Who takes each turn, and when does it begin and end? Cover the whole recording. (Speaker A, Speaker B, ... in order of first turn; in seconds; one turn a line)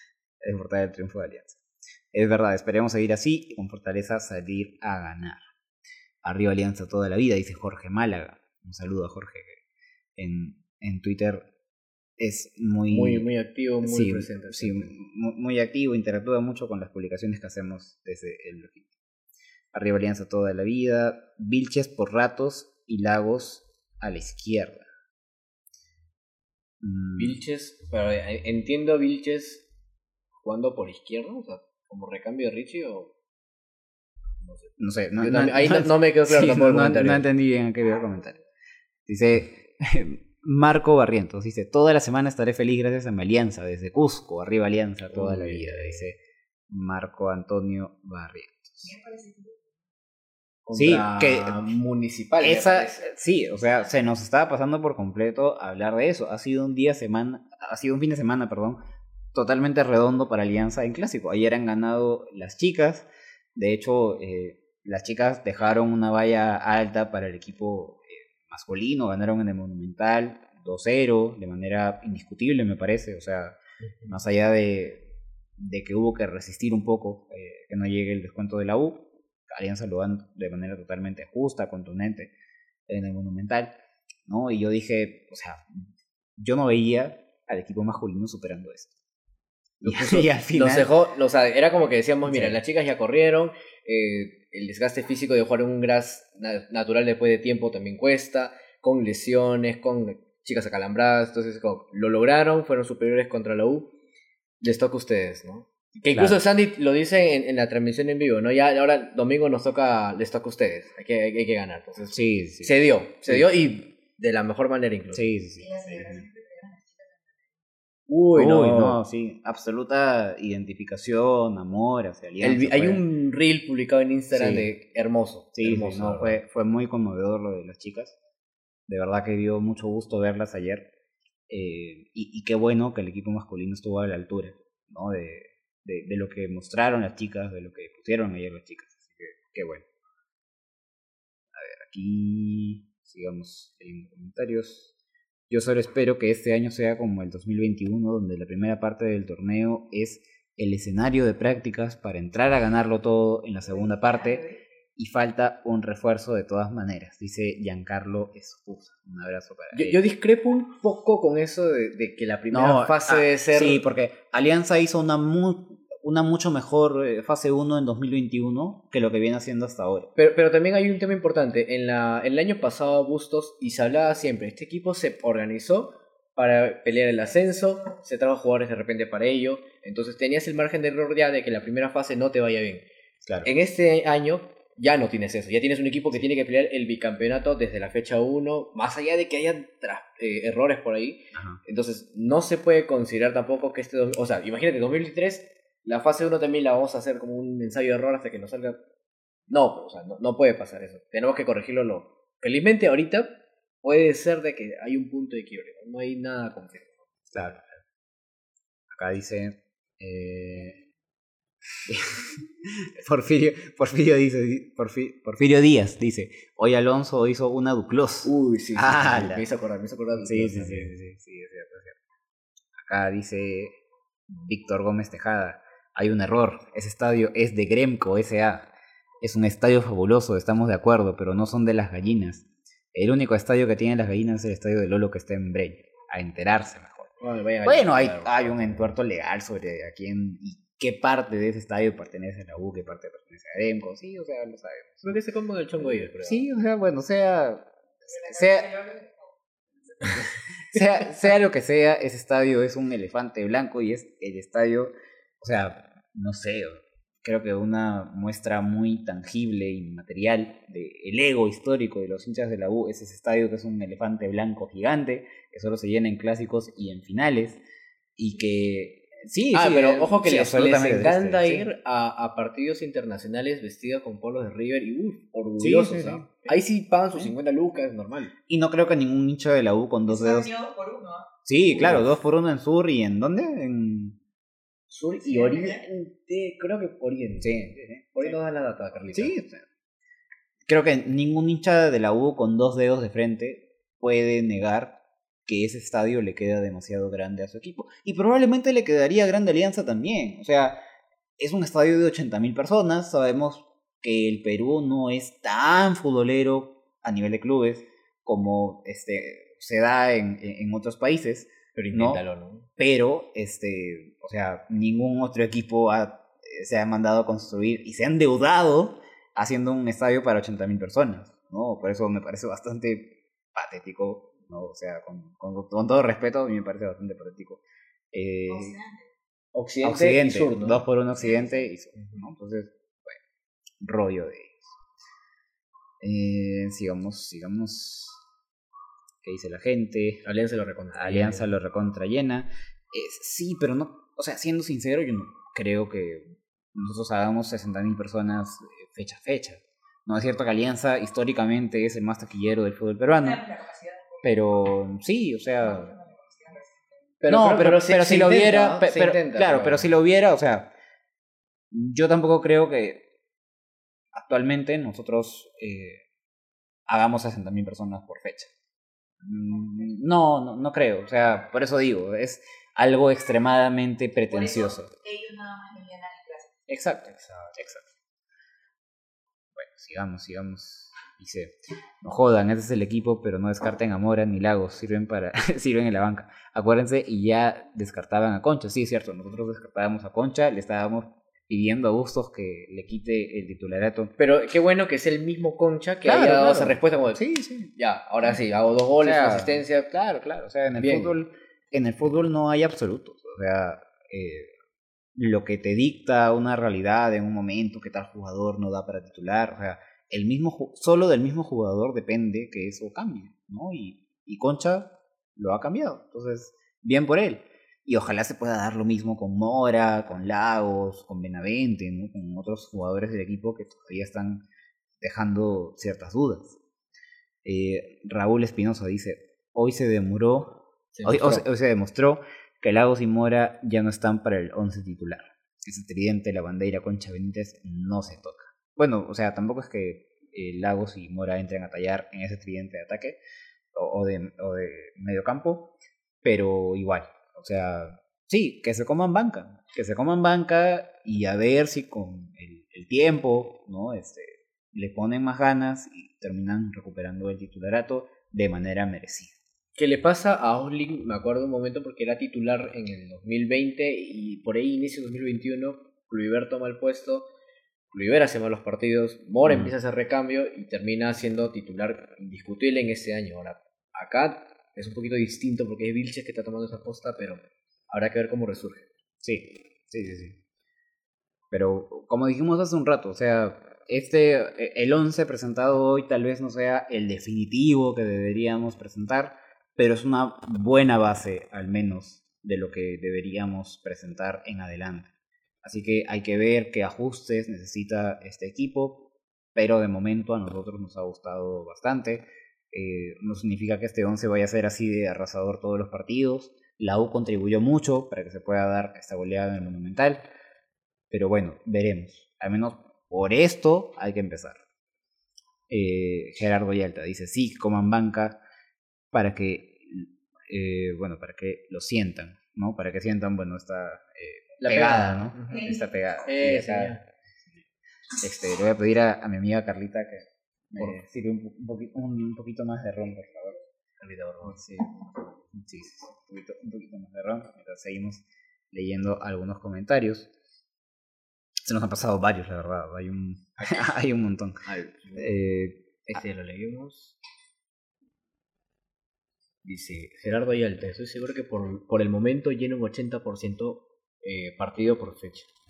Speaker A: 0.4-1.6
Speaker A: 2.1-5.4
Speaker A: 6.2-9.6
Speaker A: 10.2-11.5
Speaker A: 12.2-13.3
Speaker B: 12.9-14.9
Speaker A: 13.8-18.9
Speaker A: 19.7-24.9
Speaker A: 26.8-27.4
Speaker B: 27.2-29.7
Speaker B: 30.4-33.1
Speaker B: 34.4-37.3
Speaker A: 34.8-38.4
Speaker A: 39.1-46.2
Speaker B: 45.1-46.0
Speaker A: 46.7-49.0
Speaker C: 49.0-49.4
Speaker B: 50.6-53.1
Speaker A: 50.8-51.7
Speaker A: 52.4-58.8
Speaker A: 59.3-82.3
Speaker A: 82.9-83.7
Speaker A: 84.3-85.8
Speaker A: 86.4-88.9
Speaker A: 89.8-90.9
Speaker B: 89.8-103.9
Speaker A: 92.3-92.6
Speaker B: 104.6-115.3
Speaker A: 106.1-106.4
Speaker A: 112.1-113.4
Speaker A: 115.1-116.2
Speaker C: 115.7-117.1
Speaker B: 118.1-119.0
Speaker A: 118.3-123.0
Speaker B: 122.4-126.4
Speaker A: 124.3-124.7
Speaker A: 125.5-128.2
Speaker A: 128.9-130.9
Speaker A: 131.5-139.8
Speaker A: 141.5-144.9
Speaker A: 145.5-160.0
Speaker B: 159.7-163.8
Speaker A: 162.5-170.1
Speaker B: 170.2-182.8
Speaker A: 183.2-183.5
Speaker B: 183.4-198.8
Speaker A: 191.3-191.6
Speaker B: 199.5-207.1
Speaker A: 207.3-207.7
Speaker A: 208.9-210.8
Speaker A: 211.9-219.4
Speaker B: 218.2-220.9
Speaker A: 220.2-222.0
Speaker A: 222.8-223.8
Speaker A: 224.3-245.2
Speaker B: 237.2-238.9
Speaker B: 245.1-246.5
Speaker A: 245.8-248.8
Speaker C: 248.2-249.1
Speaker A: 250.0-267.6
Speaker A: 268.2-271.7
Speaker B: 269.5-278.3
Speaker A: 275.6-276.3
Speaker A: 278.5-280.5
Speaker C: 280.1-281.3
Speaker A: 281.4-284.2
Speaker B: 281.7-282.1
Speaker B: 284.9-289.4
Speaker A: 287.4-288.4
Speaker A: 289.1-289.7
Speaker A: 290.7-300.8
Speaker A: 301.4-312.2
Speaker B: 311.8-312.7
Speaker A: 312.8-328.8
Speaker B: 329.5-330.8
Speaker A: 329.8-333.2
Speaker A: 333.8-334.7
Speaker A: 336.0-338.2
Speaker A: 339.2-340.2
Speaker B: 340.2-341.5
Speaker A: 340.9-353.5
Speaker C: 353.4-354.0
Speaker A: 354.2-356.0
Speaker C: 356.0-356.6
Speaker B: 357.2-359.9
Speaker A: 357.3-360.7
Speaker A: 361.7-363.0
Speaker A: 364.1-366.0
Speaker A: 366.9-368.5
Speaker A: 369.2-374.9
Speaker C: 374.3-376.5
Speaker A: 376.7-377.9
Speaker B: 377.1-377.6
Speaker A: 379.6-394.1
Speaker B: 394.2-399.9
Speaker A: 396.1-397.7
Speaker A: 399.0-404.5
Speaker B: 400.8-401.1
Speaker A: 405.1-424.4
Speaker A: 425.0-426.6
Speaker A: 427.4-443.2
Speaker B: 430.9-431.4
Speaker A: 443.7-445.7
Speaker A: 446.2-459.4
Speaker B: 459.8-467.3
Speaker B: 467.9-478.9
Speaker A: 469.4-469.7
Speaker A: 479.2-480.4
Speaker A: 481.5-495.1
Speaker A: 495.6-510.3
Speaker A: 511.1-514.6
Speaker A: 515.7-518.4
Speaker A: 519.1-527.0
Speaker B: 524.6-527.0
Speaker A: 528.2-533.6
Speaker B: 534.0-534.6
Speaker A: 534.4-535.0
Speaker A: 535.5-540.3
Speaker A: 541.7-544.6
Speaker B: 544.6-545.3
Speaker A: 545.2-546.2
Speaker B: 546.1-547.2
Speaker B: 549.6-555.5